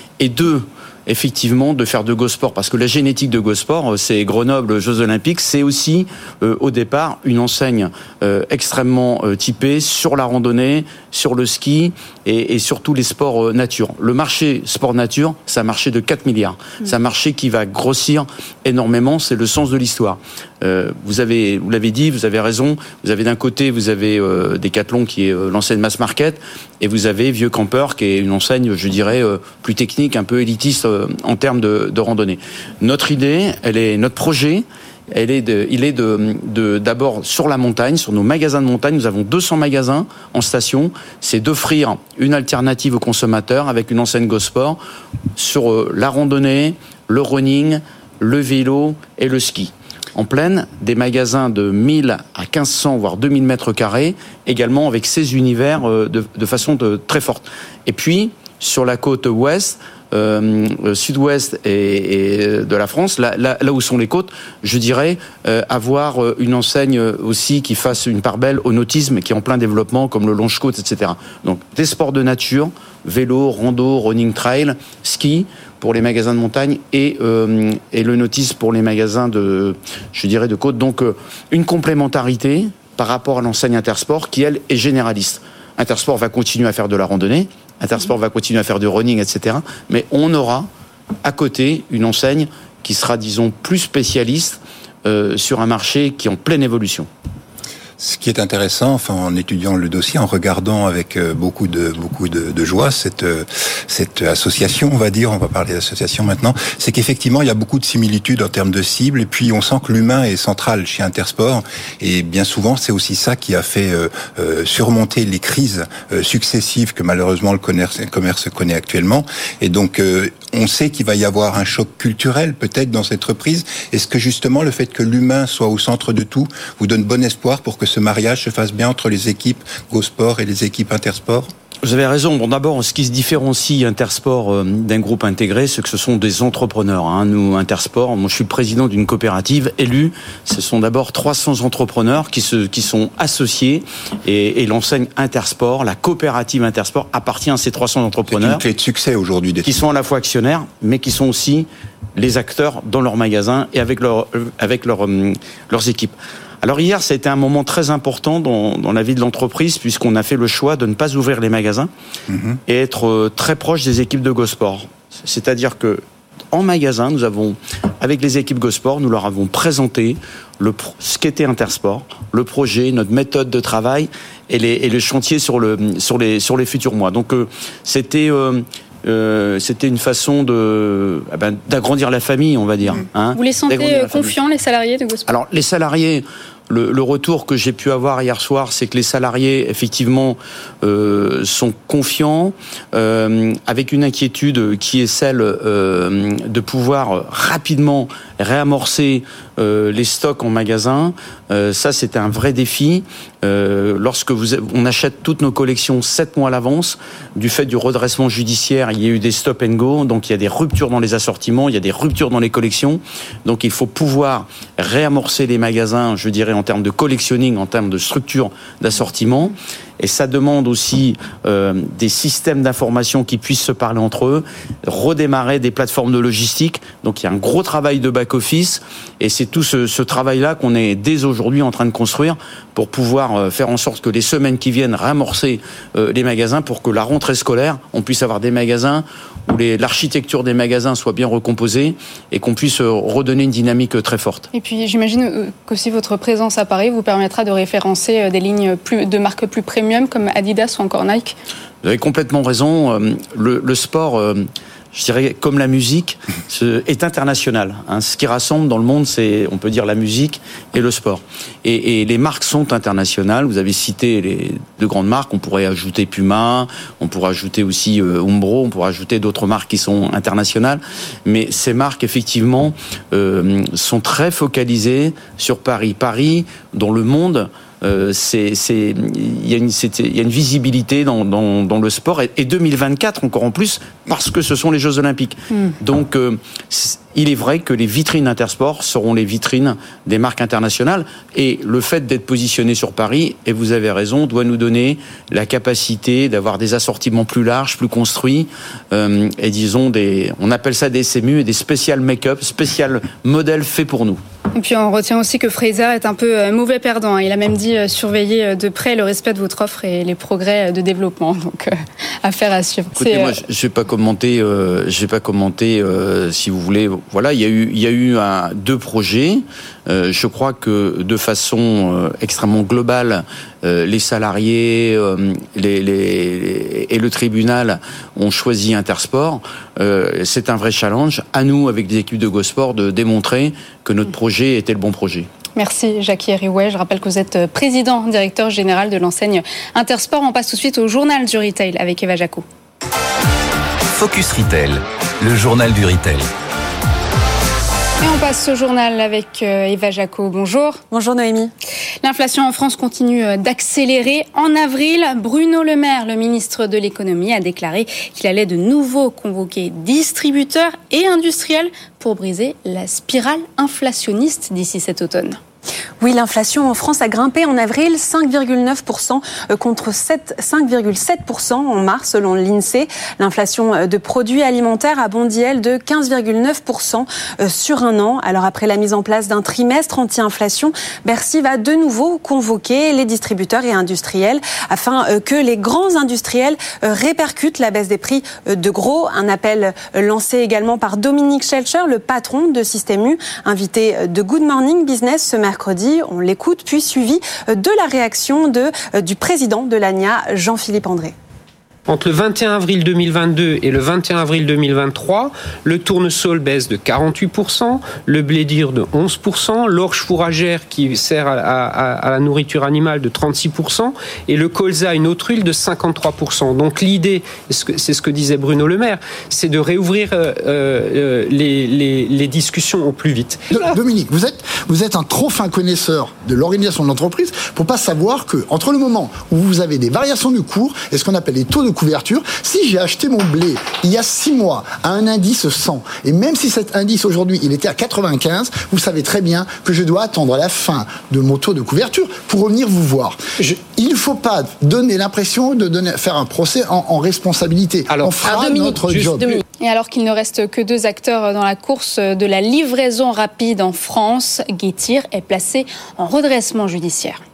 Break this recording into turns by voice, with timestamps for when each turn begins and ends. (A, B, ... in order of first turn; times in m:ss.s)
0:00.2-0:44.8 A
0:45.4-1:30.7 A
1:31.2-1:37.1 A
1:38.0-2:11.5 B
2:11.8-2:28.6 A
2:28.3-2:29.8 B
2:29.6-2:41.9 A
2:42.3-2:42.6 B
2:42.7-3:04.3 A
3:03.3-3:05.3 C
3:05.3-4:04.5 A
4:04.5-4:11.3 C
4:11.8-5:04.2 A
5:04.5-5:13.4 C
5:12.9-5:35.3 A
5:35.6-5:42.4 C
5:43.9-5:46.3 D
5:48.0-5:50.8 C
5:50.9-5:51.5 E
5:52.0-6:05.4 C
6:06.0-6:41.1 E
6:41.9-7:03.8 F
7:03.5-7:29.4 G
7:27.9-7:29.4 F
7:29.6-7:37.2 C